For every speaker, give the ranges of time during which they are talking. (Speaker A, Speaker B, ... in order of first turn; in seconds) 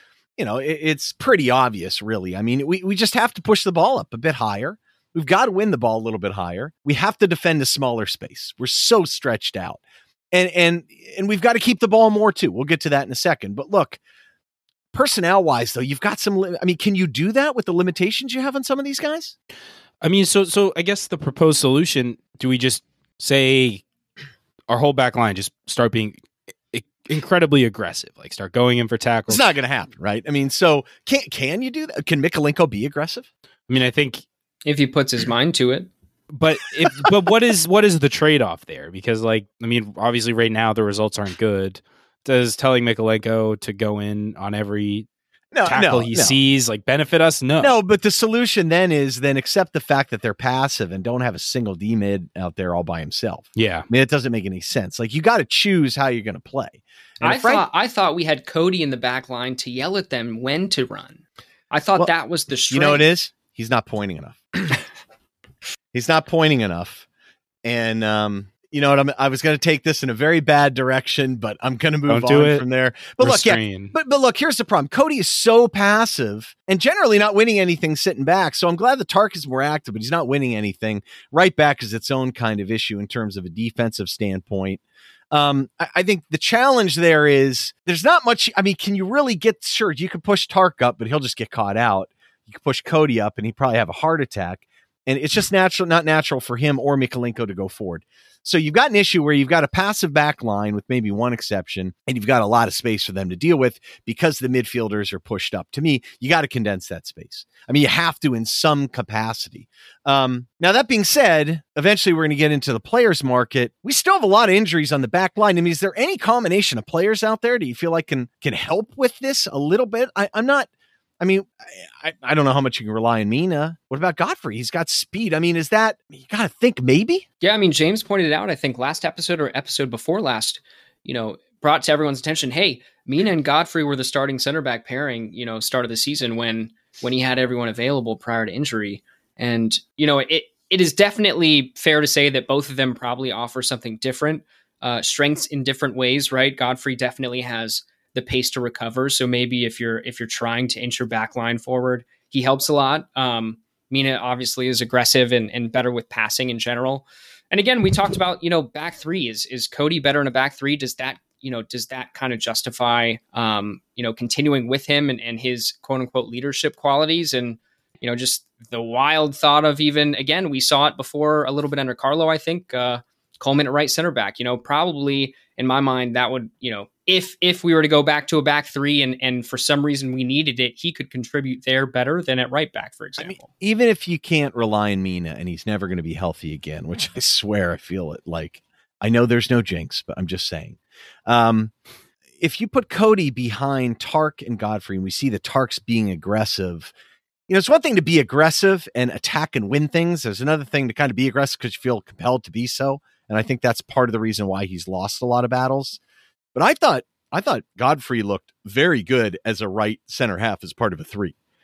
Speaker A: 0.4-9.8, 10.3-14.0, 14.9-19.4, 29.3-33.3, 45.5-46.4, 47.6-57.6, 62.7-64.8, 65.9-67.1, 67.6-120.7, 121.2-127.2, 183.2-191.7, 192.4-196.9, 197.5-206.0, 206.6-211.3
Speaker B: 20.0-23.8, 24.7-26.2, 26.7-29.5, 33.7-34.2, 36.3-45.1, 45.6-47.7, 53.6-53.9, 72.1-72.7, 73.2-73.9
Speaker C: 34.6-35.9, 57.2-63.1, 127.4-183.5